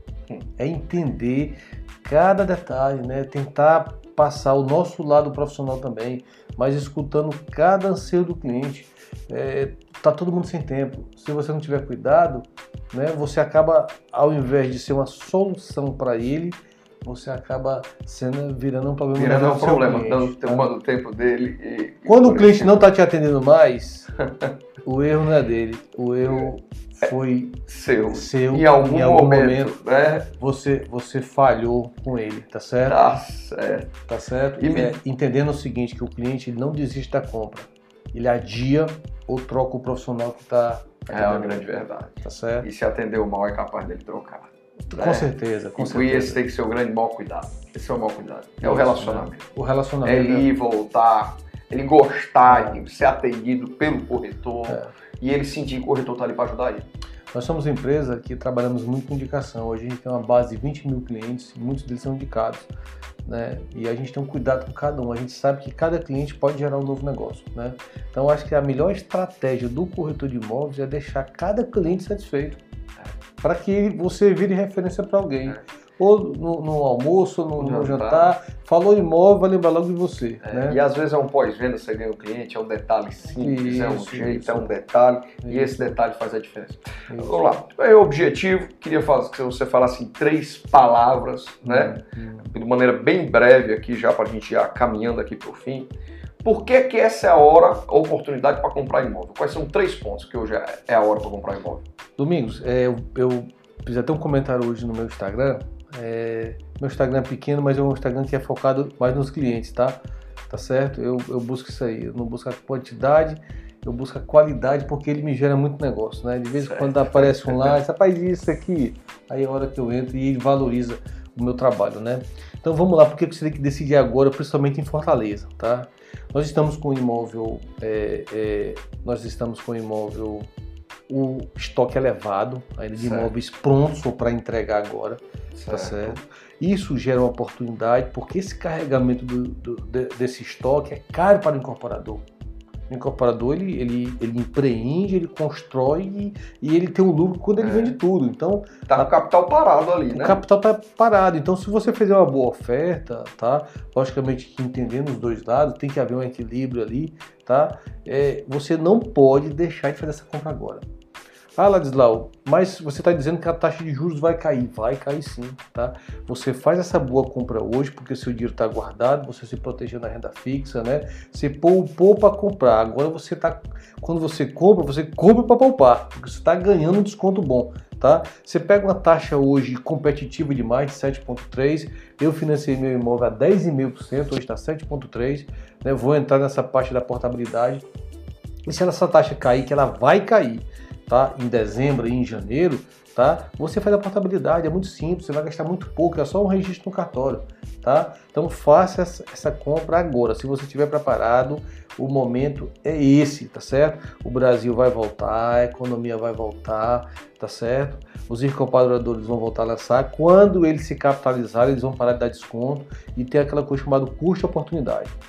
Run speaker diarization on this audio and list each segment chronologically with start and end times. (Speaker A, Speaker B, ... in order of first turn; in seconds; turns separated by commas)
Speaker A: 0.6-20.7, Speaker B: 19.1-22.9, Speaker A: 22.1-24.1, Speaker A: 24.8-29.8, Speaker B: 27.7-30.3, Speaker A: 30.4-33.2, Speaker B: 32.8-34.0, Speaker A: 34.1-41.7, Speaker B: 34.6-34.9, Speaker B: 41.1-49.4, Speaker A: 42.2-42.7, Speaker A: 44.9-46.4, Speaker A: 48.6-50.5, Speaker B: 50.0-56.9, Speaker A: 52.4-52.8, Speaker A: 57.3-62.7, Speaker A: 63.2-72.6, Speaker A: 73.4-80.8, Speaker B: 77.6-78.3, Speaker B: 80.4-95.9, Speaker A: 83.3-84.7, Speaker A: 85.4-85.9, Speaker A: 87.1-87.4, Speaker A: 91.6-92.5, Speaker B: 96.4-101.8, Speaker A: 102.2-130.5, Speaker B: 116.5-117.8, Speaker A: 131.1-142.2, Speaker B: 133.0-133.3, Speaker B: 135.5-136.2, Speaker A: 142.9-149.1, Speaker B: 147.6-147.9, Speaker B: 148.9-150.4, Speaker A: 150.1-160.8, Speaker A: 161.6-187.8, Speaker A: 188.7-215.1